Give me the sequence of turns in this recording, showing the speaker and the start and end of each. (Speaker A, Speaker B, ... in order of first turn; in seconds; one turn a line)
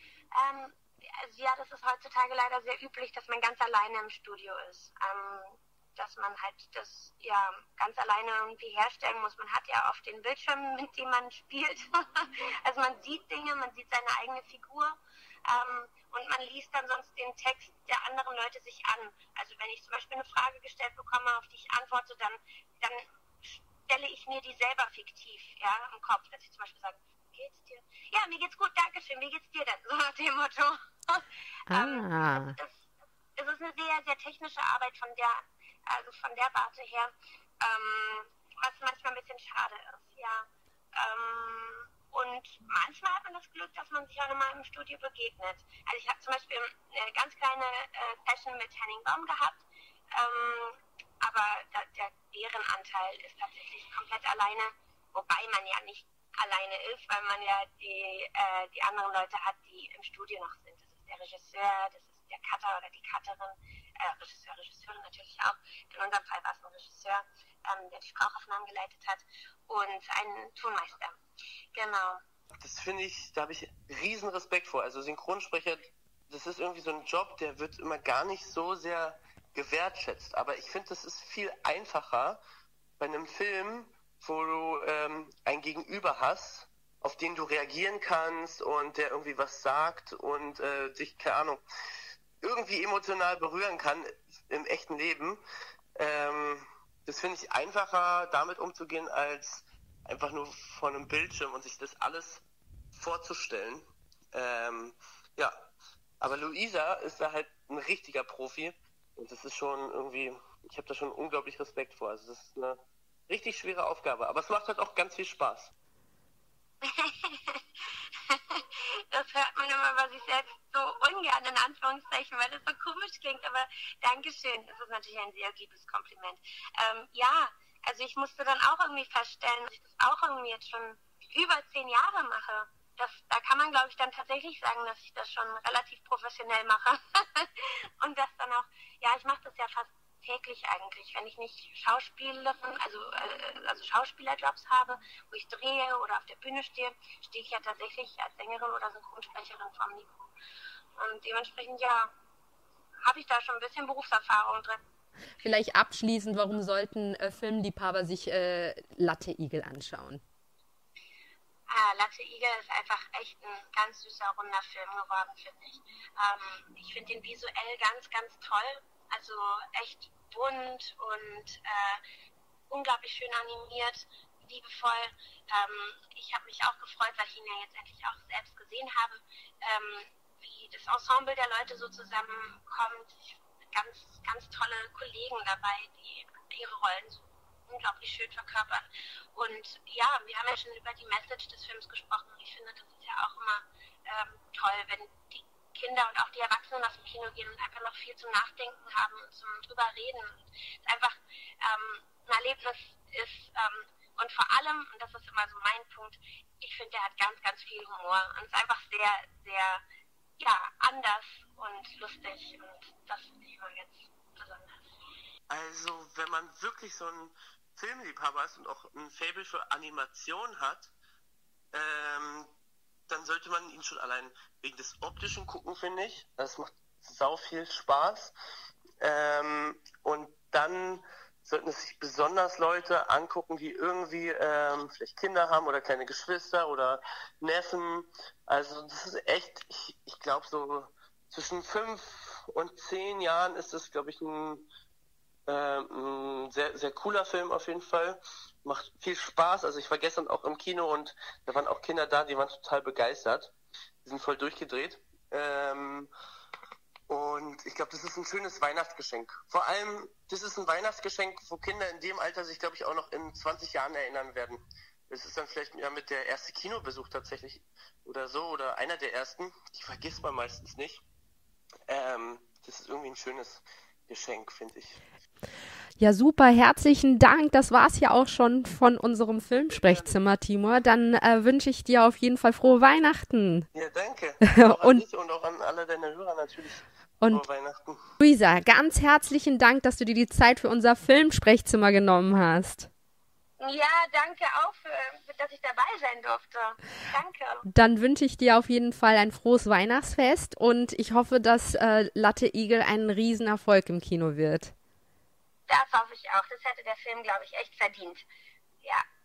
Speaker A: 0.3-49.6
Speaker B: 31.7-32.5
Speaker A: 50.1-71.1
Speaker A: 71.7-72.2
Speaker C: 72.6-82.4
Speaker C: 83.0-91.6
Speaker C: 92.4-95.4
Speaker C: 96.0-105.7
Speaker C: 106.2-115.7
Speaker A: 116.8-150.3
Speaker A: 151.0-152.1
Speaker A: 153.0-154.8
Speaker B: 155.4-160.2
Speaker A: 161.7-172.0
Speaker A: 172.7-209.8
Speaker A: 210.4-214.9
Speaker C: 215.5-220.9
Speaker C: 221.7-222.5
Speaker C: 223.1-228.3
Speaker C: 229.0-244.7
Speaker C: 245.5-253.5
Speaker C: 254.0-256.1
Speaker C: 257.1-271.0
Speaker C: 271.9-275.0
Speaker B: 276.0-283.7
Speaker C: 279.5-280.2
Speaker C: 283.7-288.0
Speaker B: 284.4-285.0
Speaker B: 288.2-292.9
Speaker A: 293.6-297.6
Speaker B: 297.6-304.7
Speaker A: 305.7-308.2